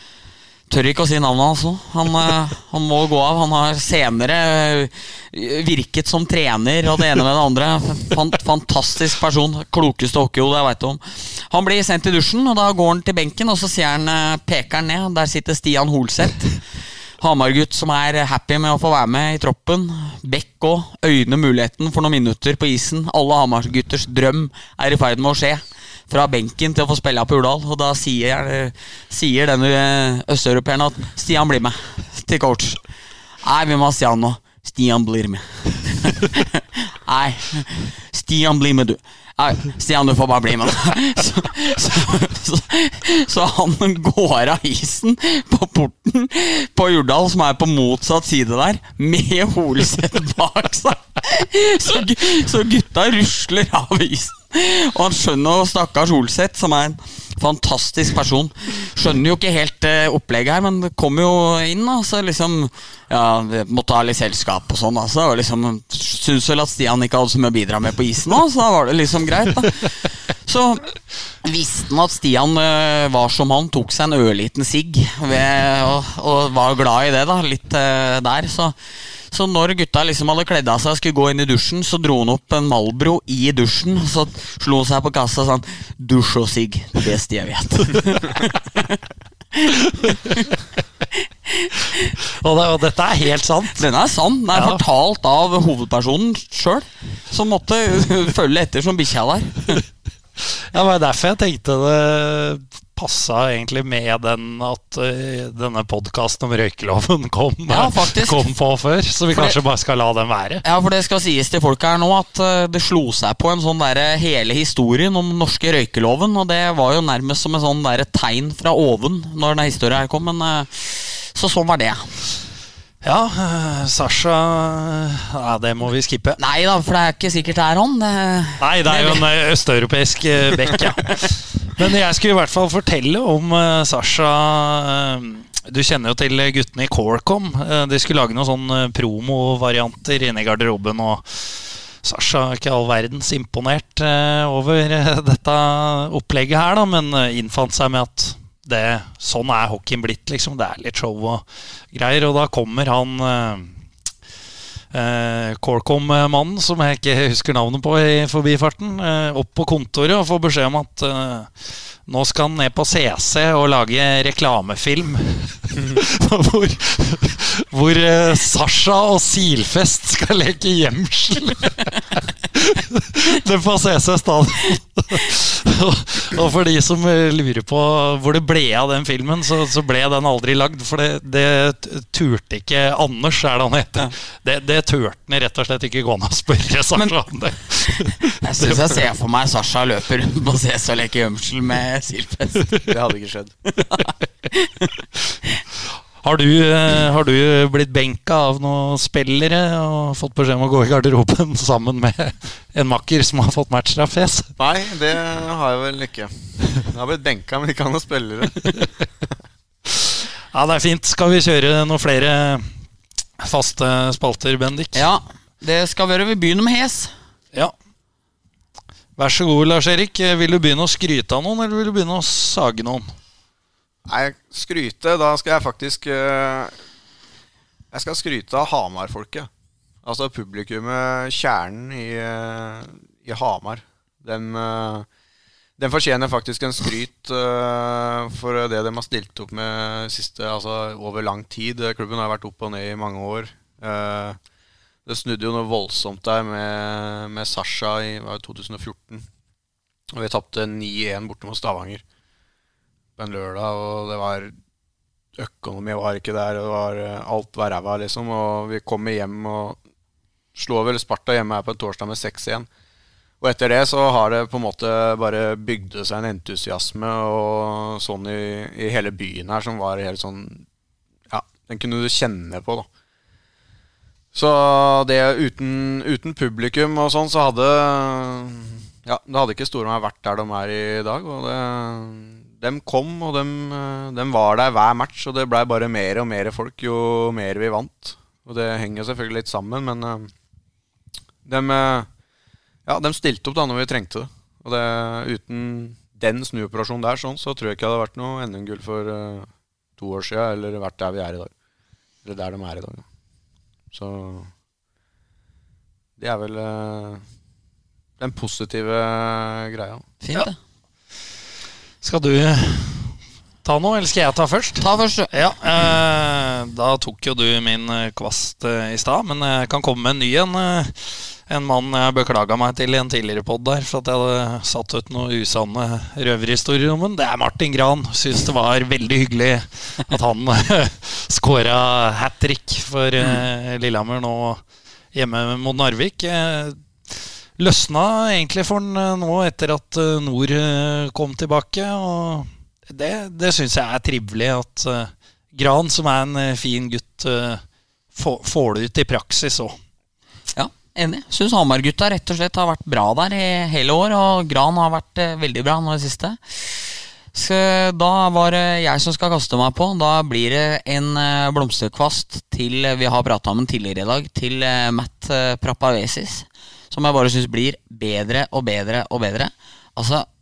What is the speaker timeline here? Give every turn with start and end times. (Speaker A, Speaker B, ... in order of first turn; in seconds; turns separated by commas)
Speaker A: 0.7-16.6, Speaker A: 17.2-32.8, Speaker A: 33.4-78.8, Speaker A: 79.3-89.0, Speaker A: 89.5-90.5, Speaker A: 91.1-92.1, Speaker B: 92.3-93.8, Speaker A: 93.8-99.8, Speaker B: 94.5-94.8, Speaker B: 100.5-110.6, Speaker A: 107.7-108.4, Speaker A: 109.3-109.6, Speaker A: 110.6-122.1, Speaker B: 123.0-126.4, Speaker A: 126.4-129.3, Speaker B: 128.6-153.7, Speaker B: 154.9-161.5, Speaker B: 162.1-188.9, Speaker A: 188.4-192.7, Speaker C: 192.9-193.5, Speaker A: 193.8-194.9, Speaker B: 196.2-204.5, Speaker C: 204.6-208.9, Speaker B: 209.9-212.7, Speaker B: 213.4-215.0, Speaker A: 214.9-217.1, Speaker B: 219.2-223.1, Speaker C: 224.1-226.7, Speaker C: 227.9-229.5, Speaker C: 230.0-235.1, Speaker C: 235.8-244.4, Speaker C: 245.1-249.3, Speaker C: 250.1-252.0, Speaker C: 253.2-254.5, Speaker C: 255.4-259.8, Speaker C: 260.6-262.7, Speaker C: 263.4-270.7, Speaker C: 271.3-272.9, Speaker C: 274.3-290.3, Speaker C: 291.4-292.1, Speaker C: 292.9-301.5, Speaker C: 302.2-303.1, Speaker C: 303.9-304.5, Speaker C: 306.2-307.2, Speaker C: 308.2-310.0, Speaker A: 310.2-310.6, Speaker B: 312.0-334.6, Speaker A: 314.8-315.3, Speaker B: 335.1-347.6, Speaker B: 348.1-349.8, Speaker A: 350.6-370.3